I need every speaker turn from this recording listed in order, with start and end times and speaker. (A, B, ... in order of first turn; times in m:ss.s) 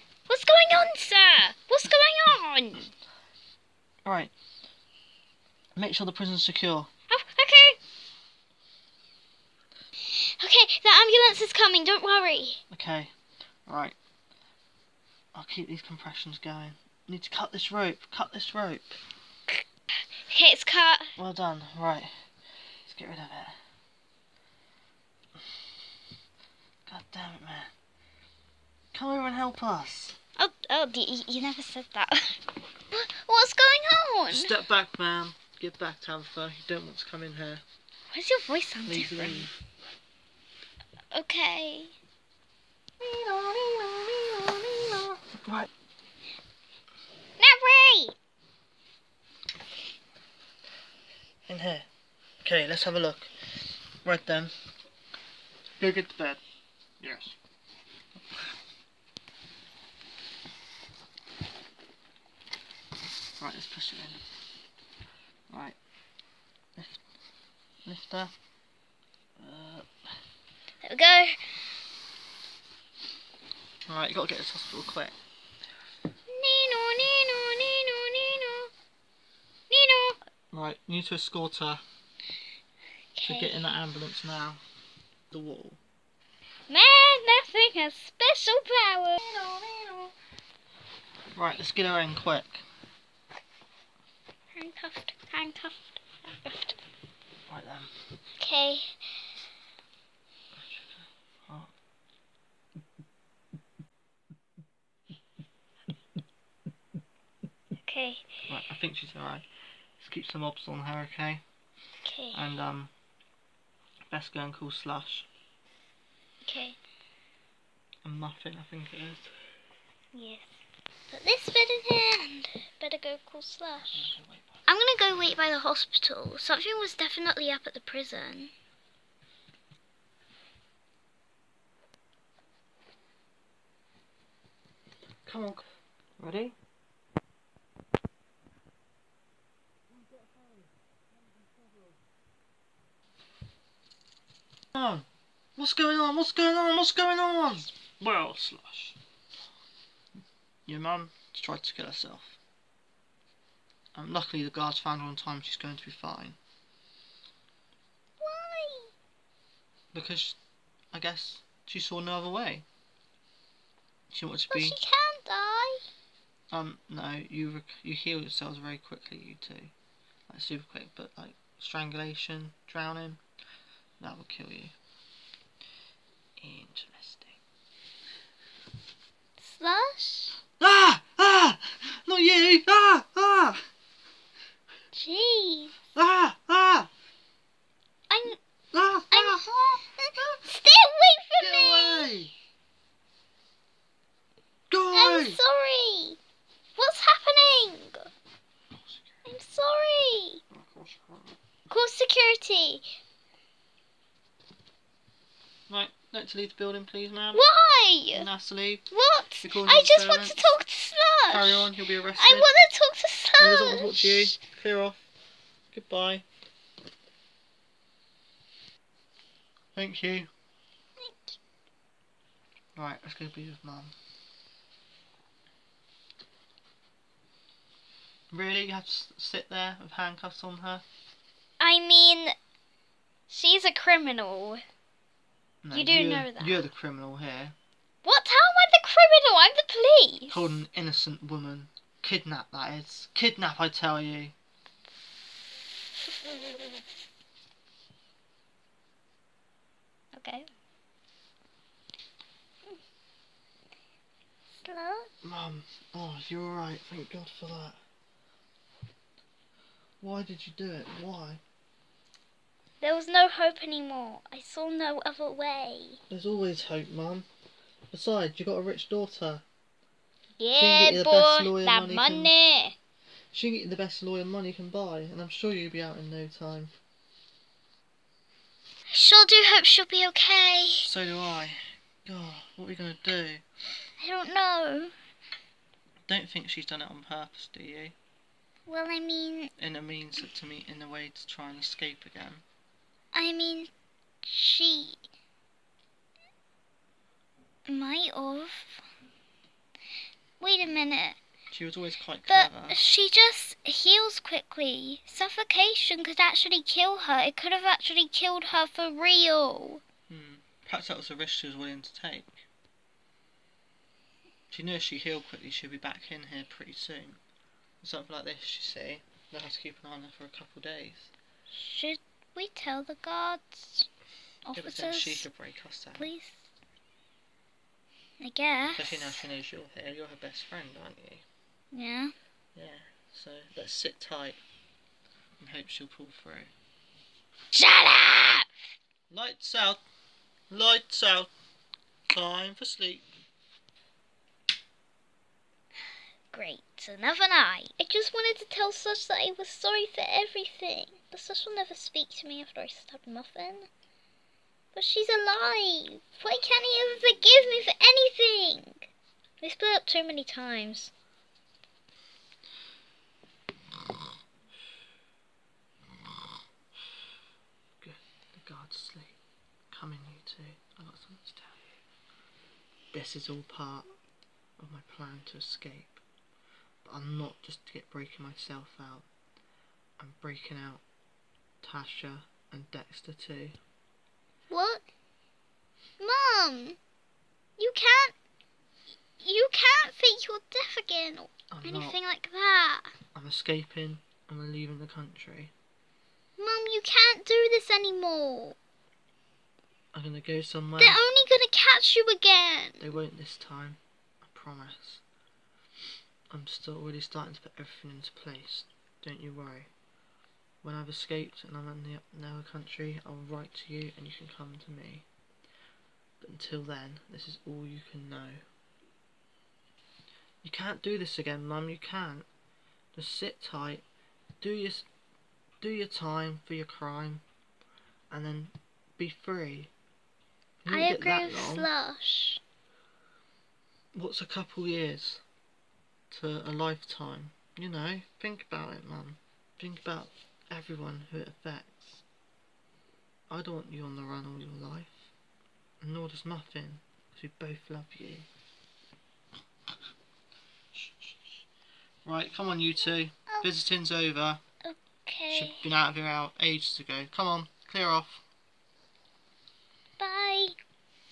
0:00.3-0:02.9 A
0:04.0-0:04.3 B
0:05.8-0:06.9 B
0:07.1-0:07.8 A
0:10.1-0:12.6 A
0:12.7-0:13.1 B
0:13.7-0:14.0 B
0:15.3-0:19.0 B
0:20.3-0:21.1 A
0:21.2-0:22.1 B
0:22.8-0:23.6 B
0:26.8-0:27.7 B
0:28.9-0:30.2 B
0:30.4-0:34.5 A
0:34.3-0:37.6 B
0:38.1-0:39.5 A
0:38.8-0:39.5 B
0:41.1-0:41.9 A
0:43.0-0:45.7 B
0:47.4-0:48.1 A
0:51.5-0:51.9 B
0:52.4-0:54.5 B
0:55.8-0:56.4 B
0:57.0-0:57.4 B
1:03.4-1:04.2 B
1:05.5-1:05.8 B
1:07.8-1:08.3 B
1:09.4-1:09.9 B
1:10.8-1:11.4 A
1:13.9-1:15.1 B
1:16.3-1:18.7 A
1:19.7-1:20.2 A
1:20.5-1:21.8 B
1:23.1-1:23.7 A
1:23.2-1:24.6 B
1:25.3-1:25.8 B
1:26.7-1:29.2 A
1:29.2-1:30.1 B
1:31.3-1:32.6 B
1:34.5-1:36.8 A
1:37.5-1:37.9 B
1:38.4-1:39.0 A
1:40.6-1:41.7 B
1:47.8-1:48.4 A
1:48.5-1:49.4 B
1:50.0-1:51.4 B
1:52.0-1:52.4 A
1:52.3-1:52.9 B
1:54.1-1:55.3 B
1:56.4-1:56.8 A
1:58.0-1:59.3 B
2:00.1-2:00.4 A
2:01.1-2:04.1 A
2:03.9-2:04.6 B
2:04.7-2:08.5 A
2:15.2-2:15.6 B
2:16.2-2:16.6 B
2:24.7-2:29.0 B
2:30.6-2:32.4 B
2:33.9-2:36.4 B
2:38.2-2:38.9 A
2:39.9-2:40.4 B
2:40.9-2:42.6 B
2:44.1-2:44.8 B
2:44.5-2:45.8 A
2:46.5-2:49.7 B
2:50.3-2:53.2 B
2:54.0-2:54.8 B
2:56.4-2:57.4 B
2:59.4-3:00.3 A
3:00.6-3:03.6 B
3:04.9-3:05.7 A
3:05.9-3:06.9 B
3:08.1-3:08.4 A
3:08.7-3:10.4 B
3:09.1-3:12.1 A
3:11.4-3:12.3 B
3:14.7-3:15.4 B
3:14.9-3:16.2 A
3:16.8-3:18.1 A
3:18.7-3:19.0 B
3:19.2-3:20.4 A
3:20.5-3:21.4 B
3:21.7-3:22.8 A
3:25.7-3:27.4 B
3:27.3-3:28.2 A
3:28.1-3:28.8 B
3:28.9-3:34.4 A
3:29.4-3:30.6 B
3:31.3-3:32.5 B
3:33.4-3:35.0 B
3:35.7-3:36.2 B
3:39.7-3:40.3 B
3:41.0-3:41.4 A
3:42.8-3:43.9 B
3:48.3-3:50.8 B
3:51.6-3:52.3 A
3:53.3-3:54.6 A
3:55.6-3:57.5 B
3:55.7-3:56.6 A
3:58.0-4:00.5 A
4:00.3-4:04.3 B
4:10.1-4:10.5 A
4:14.6-4:15.1 A
4:15.2-4:17.8 B
4:20.0-4:21.4 B
4:22.8-4:26.0 A
4:26.1-4:27.3 B
4:27.9-4:29.4 B
4:30.4-4:32.7 A
4:30.6-4:32.3 B
4:33.3-4:36.7 B
4:38.9-4:40.9 A
4:40.8-4:43.4 B
4:44.0-4:44.9 A
4:46.1-4:47.9 B
4:48.7-4:49.5 A
4:49.6-4:52.4 B
4:53.1-4:53.7 A
4:54.2-4:55.0 A
4:57.7-4:58.8 A
5:00.4-5:01.2 A
5:01.5-5:02.8 B
5:02.3-5:09.8 A
5:10.1-5:12.4 B
5:14.5-5:17.2 B
5:17.8-5:21.1 B
5:21.5-5:23.9 A
5:24.4-5:25.2 A
5:24.5-5:26.1 B
5:26.0-5:26.4 A
5:28.2-5:29.2 A
5:28.8-5:31.2 B
5:31.7-5:32.1 A
5:32.5-5:34.4 B
5:35.4-5:36.5 B
5:37.5-5:38.5 A
5:39.1-5:39.8 B
5:40.5-5:41.3 B
5:42.1-5:43.0 B
5:46.3-5:53.7 A
5:54.7-5:58.9 A
5:59.4-6:00.9 A
6:07.8-6:09.2 B
6:09.7-6:11.6 B
6:12.9-6:13.9 B
6:14.6-6:16.0 B
6:16.8-6:19.1 B
6:20.0-6:20.8 B
6:21.6-6:23.6 B
6:24.5-6:24.8 A
6:26.0-6:26.8 A
6:27.6-6:28.1 A
6:29.2-6:32.9 A
6:31.5-6:32.0 B
6:33.1-6:35.5 B
6:36.4-6:38.6 A
6:39.9-6:41.0 B
6:40.8-6:42.8 A
6:42.8-6:45.0 B
6:46.3-6:49.7 B
6:50.6-6:55.0 B
6:56.2-6:58.4 B
7:00.4-7:02.2 B
7:02.9-7:03.8 B
7:04.4-7:04.9 B
7:05.6-7:07.2 B
7:08.1-7:09.7 B
7:10.6-7:11.7 B
7:10.7-7:12.4 A
7:13.9-7:15.2 B
7:16.1-7:22.0 B
7:23.3-7:25.1 B
7:25.8-7:28.3 B
7:32.0-7:34.4 B
7:34.6-7:35.6 A
7:35.3-7:38.2 B
7:40.0-7:40.5 A